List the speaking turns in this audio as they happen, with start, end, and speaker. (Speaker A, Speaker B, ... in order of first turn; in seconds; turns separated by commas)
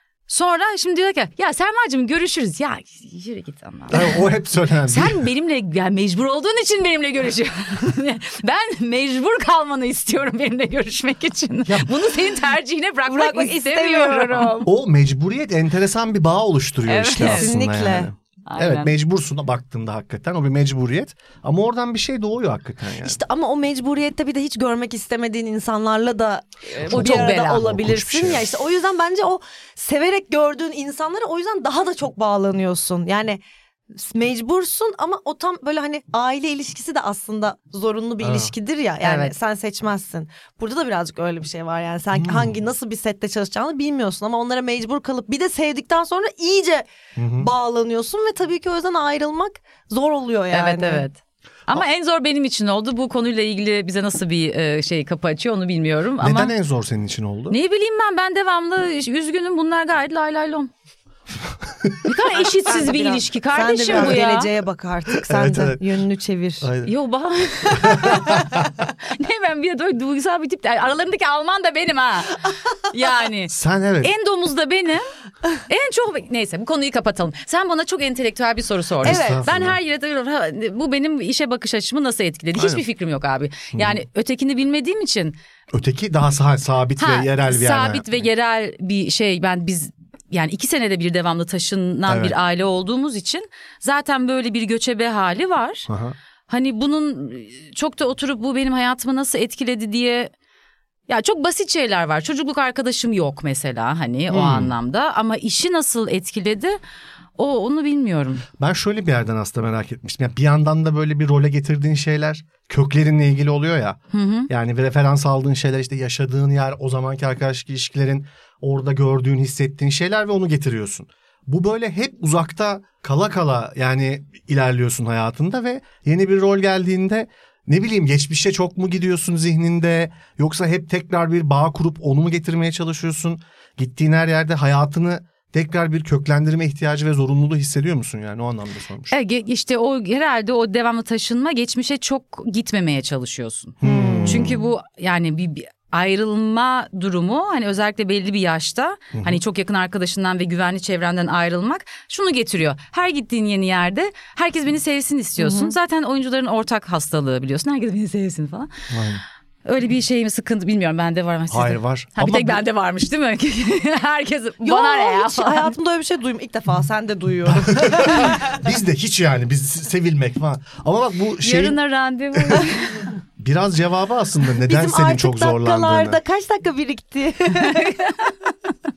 Speaker A: 0.3-4.1, Speaker B: 3.9-5.2, Speaker A: 4.9-14.6, Speaker B: 11.7-11.9, Speaker C: 13.1-14.7, Speaker B: 14.6-23.2, Speaker A: 16.8-17.5, Speaker C: 17.2-18.1, Speaker A: 18.4-18.9, Speaker C: 23.0-33.4, Speaker A: 26.8-27.7, Speaker B: 26.8-28.6, Speaker C: 33.9-51.0, Speaker B: 38.2-38.5, Speaker A: 39.0-39.3, Speaker B: 42.1-42.5, Speaker B: 47.1-47.5, Speaker A: 50.5-56.5, Speaker B: 56.2-57.6, Speaker A: 57.5-60.7, Speaker A: 62.0-64.5, Speaker C: 62.5-66.7, Speaker B: 63.9-64.2, Speaker B: 65.2-65.8, Speaker B: 66.6-66.9, Speaker A: 66.8-75.1, Speaker B: 67.7-68.6, Speaker B: 73.5-74.1, Speaker A: 75.7-85.4, Speaker C: 79.0-79.5, Speaker B: 79.0-79.8, Speaker B: 82.5-82.8, Speaker B: 83.7-84.0, Speaker B: 85.7-88.2, Speaker A: 87.0-95.9, Speaker B: 92.1-92.3, Speaker B: 95.9-96.2, Speaker A: 96.5-100.3, Speaker A: 101.1-106.8, Speaker B: 104.3-104.7, Speaker A: 107.4-108.5, Speaker B: 108.6-139.1, Speaker A: 114.1-114.5, Speaker A: 139.1-158.7, Speaker B: 143.8-144.6, Speaker C: 143.8-144.5, Speaker B: 149.1-149.4, Speaker C: 155.4-155.7, Speaker B: 158.9-159.2, Speaker A: 159.6-165.7, Speaker B: 161.5-162.6, Speaker C: 164.6-168.7, Speaker B: 167.4-171.8, Speaker A: 171.4-173.0, Speaker B: 172.3-172.6, Speaker B: 173.4-176.2, Speaker C: 174.6-178.1, Speaker A: 177.6-178.3